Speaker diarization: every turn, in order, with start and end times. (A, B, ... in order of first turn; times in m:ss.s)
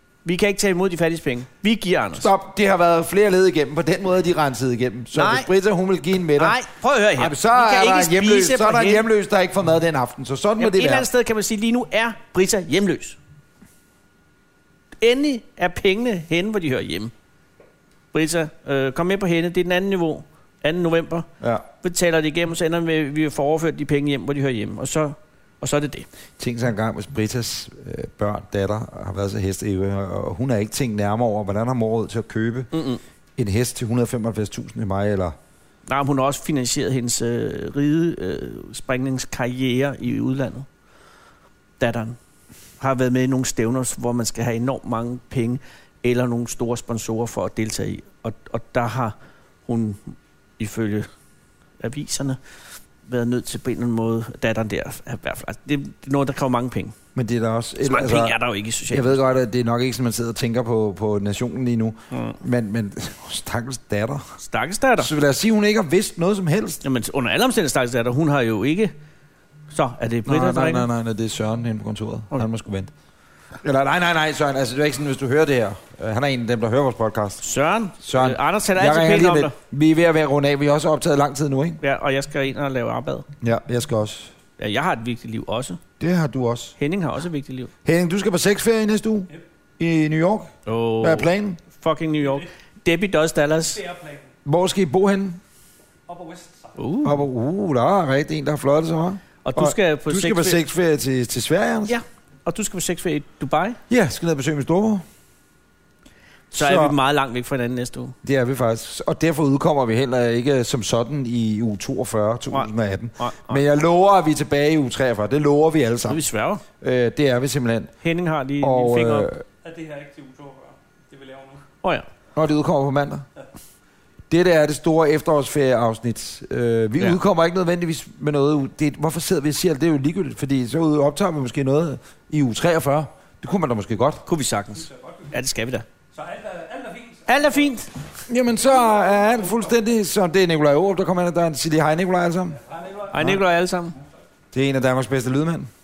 0:00.2-0:02.3 A
0:02.1-0:06.6 B
0:05.1-0:05.5 A
0:06.4-0:09.0 A
0:07.2-0:11.1 B
0:10.6-0:13.2 A
0:15.0-0:17.1 A
0:18.1-0:21.3 A
0:21.4-0:21.6 B
0:21.8-0:26.0 A
0:26.4-0:32.7 B
0:32.7-0:33.0 A
0:33.4-0:35.3 B
0:35.9-0:40.7 A
0:41.8-0:42.2 A
0:42.8-0:49.1 A
0:49.7-0:51.1 A
0:51.8-0:52.4 A
0:53.0-0:56.9 A
0:57.1-0:58.4 B
0:57.8-0:59.2 A
0:58.9-1:04.2 B
1:02.1-1:02.4 A
1:04.4-1:05.1 A
1:05.0-1:06.8 B
1:06.8-1:08.9 A
1:09.7-1:10.9 A
1:10.2-1:12.9 B
1:13.6-1:17.4 B
1:17.4-1:19.5 A
1:18.0-1:21.8 B
1:21.8-1:23.3 A
1:23.4-1:24.3 B
1:24.6-1:25.8 A
1:26.0-1:26.8 B
1:26.8-1:27.7 A
1:27.8-1:31.6 B
1:30.6-1:33.8 A
1:33.7-1:34.3 C
1:34.4-1:35.4 B
1:36.1-1:36.8 C
1:36.8-1:37.2 A
1:37.0-1:42.0 B
1:39.4-1:40.6 A
1:41.9-1:43.8 A
1:43.9-1:45.0 B
1:46.5-1:47.0 B
1:46.5-1:48.1 A
1:48.2-1:56.2 B
1:52.5-1:53.6 A
1:56.1-1:56.6 A
1:56.8-1:57.9 B
1:58.0-1:59.3 A
1:58.6-1:59.4 B
1:59.6-2:01.6 C
2:02.4-2:03.2 B
2:04.3-2:14.2 B
2:14.2-2:15.8 A
2:14.8-2:15.3 C
2:16.1-2:17.8 C
2:17.3-2:17.9 A
2:18.3-2:22.6 B
2:22.7-2:23.1 C
2:23.1-2:24.0 A
2:24.5-2:25.7 B